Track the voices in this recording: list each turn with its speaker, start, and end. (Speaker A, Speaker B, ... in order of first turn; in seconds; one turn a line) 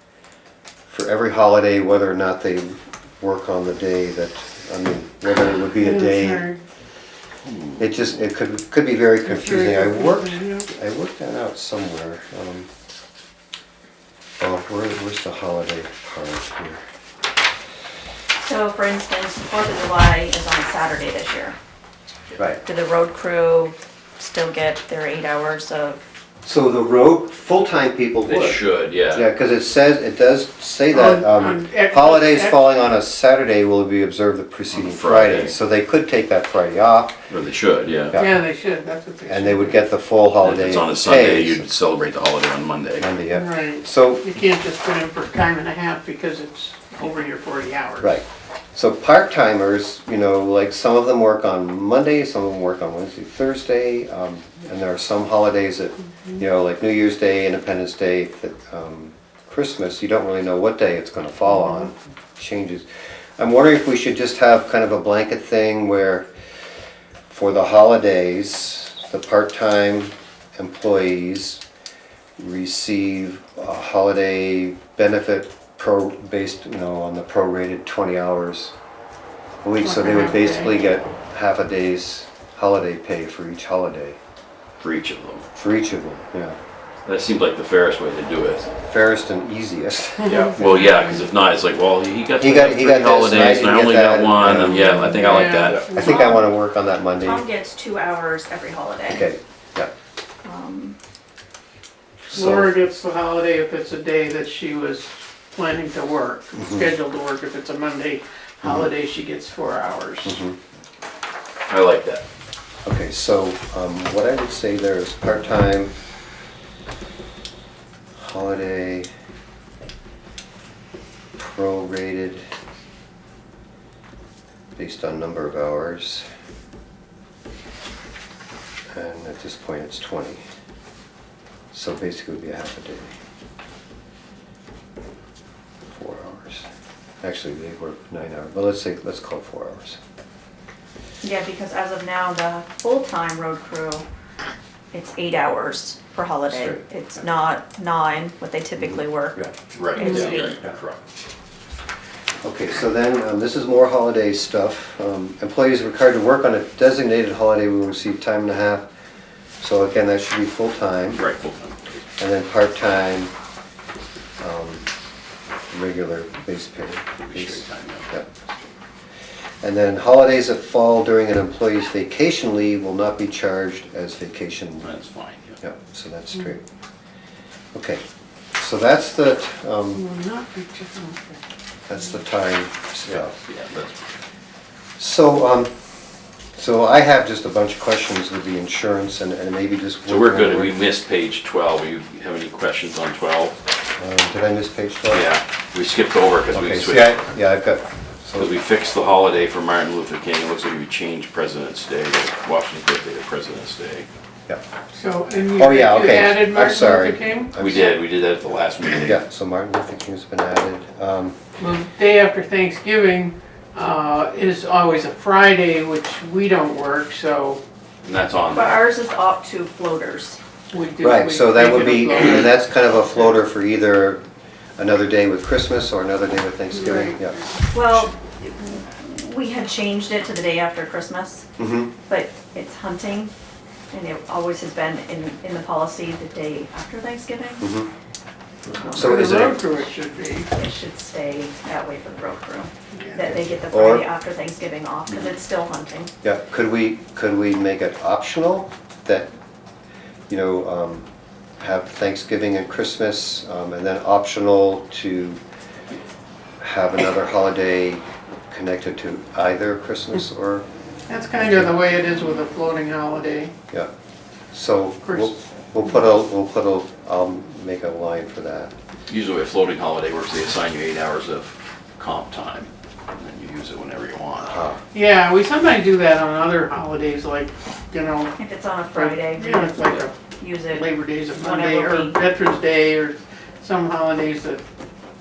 Speaker A: 0.9-6.5
Speaker B: 5.8-6.6
Speaker C: 7.4-7.8
Speaker A: 7.8-12.7
Speaker B: 9.2-10.7
Speaker A: 14.4-16.8
Speaker D: 18.4-21.6
Speaker A: 22.4-22.6
Speaker D: 22.6-26.0
Speaker A: 26.4-37.2
Speaker C: 28.2-29.3
Speaker B: 30.9-32.7
Speaker C: 34.7-35.5
Speaker C: 37.3-38.2
Speaker A: 38.1-38.4
Speaker B: 38.1-39.8
Speaker A: 39.3-41.7
Speaker C: 40.4-43.1
Speaker A: 43.0-44.3
Speaker B: 43.3-48.2
Speaker A: 48.0-62.9
Speaker A: 63.4-66.3
Speaker A: 67.3-71.6
Speaker A: 72.4-78.7
Speaker A: 79.6-84.2
Speaker B: 79.8-80.7
Speaker C: 84.8-85.4
Speaker A: 85.5-86.6
Speaker C: 87.0-88.7
Speaker A: 88.8-90.6
Speaker C: 90.2-95.9
Speaker B: 90.8-91.2
Speaker A: 92.4-94.8
Speaker D: 94.9-95.2
Speaker B: 95.0-96.2
Speaker A: 95.9-97.4
Speaker D: 95.9-96.5
Speaker D: 97.2-99.3
Speaker A: 99.1-99.9
Speaker D: 100.4-101.0
Speaker A: 102.3-102.7
Speaker B: 102.3-110.4
Speaker A: 106.5-106.9
Speaker A: 108.6-108.9
Speaker A: 110.2-110.5
Speaker C: 111.7-112.2
Speaker A: 112.8-115.9
Speaker A: 118.1-119.1
Speaker A: 121.4-122.5
Speaker A: 124.8-126.2
Speaker A: 128.9-130.4
Speaker A: 131.7-133.1
Speaker A: 135.9-136.7
Speaker A: 137.2-140.0
Speaker D: 141.2-144.1
Speaker D: 144.9-150.6
Speaker A: 146.5-146.8
Speaker A: 148.8-149.5
Speaker C: 149.7-151.0
Speaker A: 152.4-158.9
Speaker A: 159.6-161.2
Speaker C: 161.2-162.0
Speaker A: 162.2-163.3
Speaker A: 164.4-164.9
Speaker A: 165.7-168.3
Speaker C: 167.2-168.1
Speaker A: 169.6-174.9
Speaker C: 174.8-175.6
Speaker A: 175.6-176.6
Speaker A: 177.7-178.0
Speaker A: 178.6-180.0
Speaker B: 179.9-181.4
Speaker A: 181.9-183.3
Speaker C: 183.1-184.1
Speaker A: 185.0-185.7
Speaker A: 186.5-190.8
Speaker C: 190.1-193.6
Speaker A: 194.0-195.3
Speaker C: 195.1-197.2
Speaker A: 196.5-198.5
Speaker C: 198.4-204.1
Speaker B: 204.9-207.5
Speaker A: 205.6-207.9
Speaker C: 207.6-209.2
Speaker A: 209.0-211.4
Speaker B: 211.6-217.6
Speaker C: 218.0-218.8
Speaker D: 218.5-220.4
Speaker B: 220.7-222.6
Speaker A: 221.0-224.2
Speaker A: 224.8-228.1
Speaker B: 226.7-227.2
Speaker D: 227.7-231.5
Speaker A: 231.6-231.9
Speaker D: 232.1-233.3
Speaker D: 233.9-237.6
Speaker A: 237.6-237.9
Speaker B: 238.9-240.5
Speaker A: 238.9-239.7
Speaker D: 240.5-246.1
Speaker A: 243.2-244.1
Speaker A: 246.2-249.3
Speaker A: 250.3-251.0
Speaker A: 251.6-255.4
Speaker A: 256.6-260.6
Speaker B: 261.1-263.5
Speaker A: 261.4-261.7
Speaker A: 264.5-268.7
Speaker B: 265.0-265.3
Speaker C: 269.1-274.6
Speaker A: 274.4-274.8
Speaker B: 274.9-278.4
Speaker D: 278.4-280.9
Speaker B: 278.9-280.2
Speaker B: 280.7-284.6
Speaker D: 281.4-282.2